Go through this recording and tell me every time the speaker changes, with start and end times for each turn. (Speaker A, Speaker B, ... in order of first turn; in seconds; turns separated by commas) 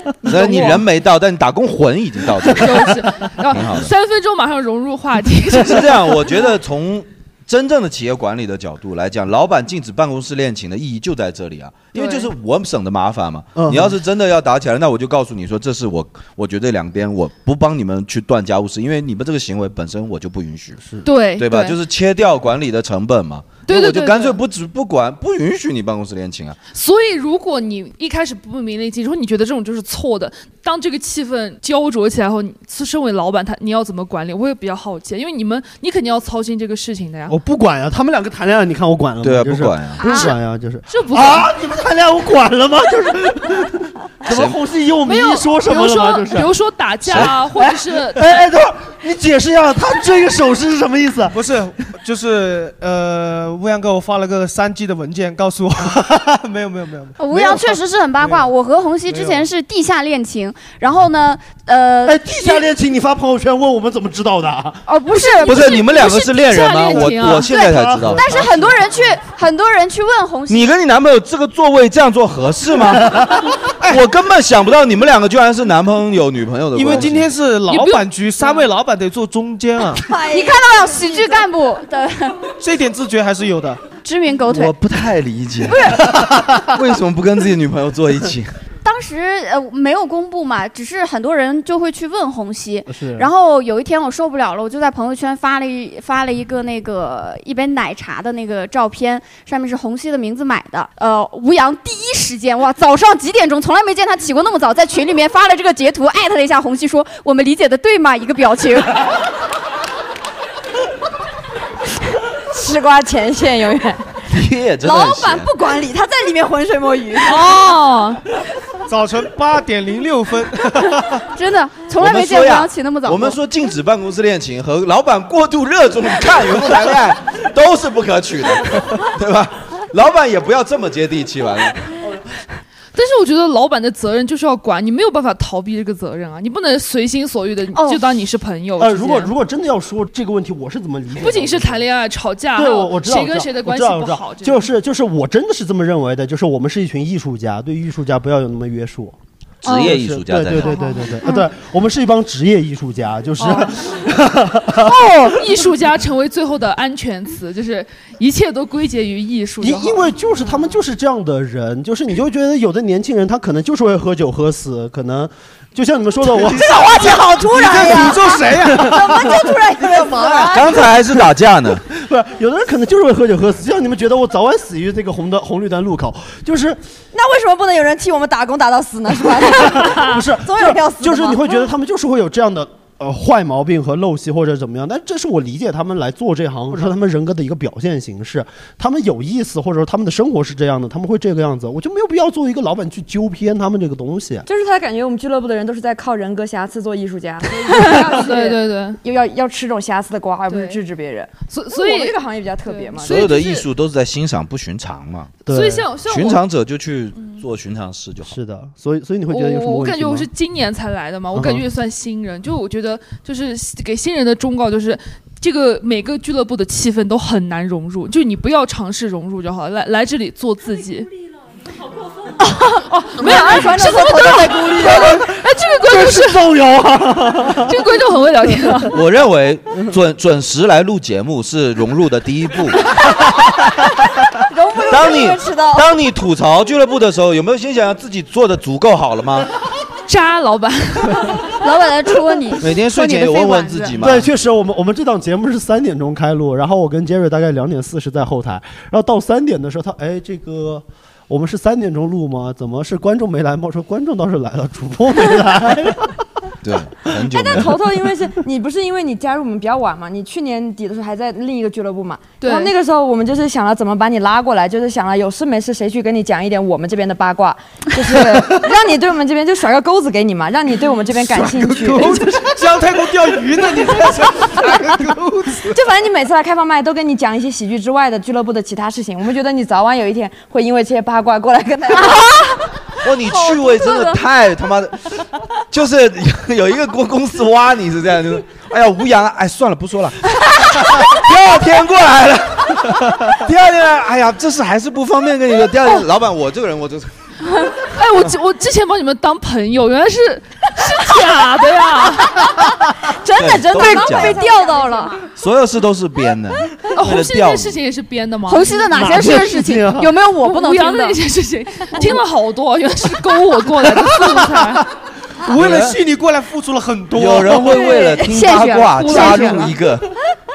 Speaker A: 0.2-3.0, Speaker B: 0.3-0.8, Speaker C: 0.4-0.7, Speaker B: 2.5-6.3, Speaker A: 3.5-3.9, Speaker A: 5.6-20.8, Speaker B: 11.9-12.3, Speaker D: 13.6-14.0, Speaker B: 21.0-21.8, Speaker A: 21.4-26.6, Speaker B: 23.6-24.4, Speaker B: 26.7-37.4, Speaker D: 37.3-46.5, Speaker A: 39.2-40.0, Speaker E: 40.0-40.3, Speaker B: 40.9-41.5, Speaker A: 44.2-44.5, Speaker B: 45.0-48.4, Speaker D: 47.0-51.4, Speaker A: 47.1-47.3, Speaker F: 51.3-58.5, Speaker E: 57.2-62.7, Speaker F: 59.1-59.5, Speaker D: 62.0-64.8, Speaker E: 64.9-70.7, Speaker A: 65.4-68.2, Speaker B: 65.9-67.5, Speaker D: 67.5-68.9, Speaker A: 70.5-73.3, Speaker A: 73.9-77.3, Speaker F: 76.7-80.0, Speaker B: 77.7-78.4, Speaker C: 80.0-81.4, Speaker E: 80.3-82.4, Speaker F: 82.6-83.8, Speaker E: 84.0-84.7, Speaker A: 84.5-88.5, Speaker E: 85.7-86.2, Speaker E: 88.8-109.1, Speaker D: 92.9-93.3, Speaker C: 112.5-114.2, Speaker A: 114.3-115.5, Speaker C: 114.8-117.6, Speaker B: 117.2-118.2, Speaker F: 118.9-121.2, Speaker E: 121.3-123.4, Speaker A: 122.0-131.8, Speaker B: 132.9-139.3, Speaker E: 137.7-138.0, Speaker D: 138.8-141.9, Speaker B: 141.2-144.7, Speaker D: 142.5-155.3, Speaker A: 149.6-150.8, Speaker B: 155.3-160.1, Speaker D: 159.6-167.1, Speaker F: 166.3-170.6, Speaker C: 166.7-170.7, Speaker D: 168.7-169.3, Speaker A: 170.5-171.8, Speaker D: 171.9-176.8, Speaker C: 177.1-181.6, Speaker D: 179.5-194.5, Speaker C: 194.4-203.2, Speaker B: 197.6-199.0, Speaker B: 200.5-200.8, Speaker B: 201.5-203.7, Speaker A: 203.0-205.4, Speaker B: 205.4-206.4, Speaker D: 205.5-205.9, Speaker A: 206.1-208.3, Speaker D: 208.2-210.3, Speaker B: 209.3-221.1, Speaker D: 211.3-211.6, Speaker B: 222.4-226.6, Speaker C: 223.2-225.3, Speaker D: 225.8-227.8, Speaker B: 227.5-228.9, Speaker A: 228.9-233.9, Speaker C: 234.5-235.9, Speaker A: 234.9-239.5, Speaker B: 240.1-241.6, Speaker E: 241.6-244.0, Speaker A: 242.6-244.3, Speaker D: 244.0-256.1, Speaker A: 256.6-257.8, Speaker C: 257.3-272.4, Speaker B: 262.4-262.7, Speaker F: 271.1-275.8, Speaker C: 275.7-282.2, Speaker E: 282.0-284.2, Speaker A: 283.0-297.1, Speaker B: 297.8-302.4, Speaker C: 302.3-305.2, Speaker A: 303.4-304.4, Speaker E: 303.7-305.1, Speaker A: 305.4-307.8, Speaker B: 306.9-308.9, Speaker E: 308.5-311.2, Speaker D: 308.9-310.1, Speaker B: 310.4-314.9, Speaker F: 315.4-317.8, Speaker A: 315.5-315.9, Speaker A: 317.1-320.1, Speaker E: 317.7-319.8, Speaker B: 319.0-319.7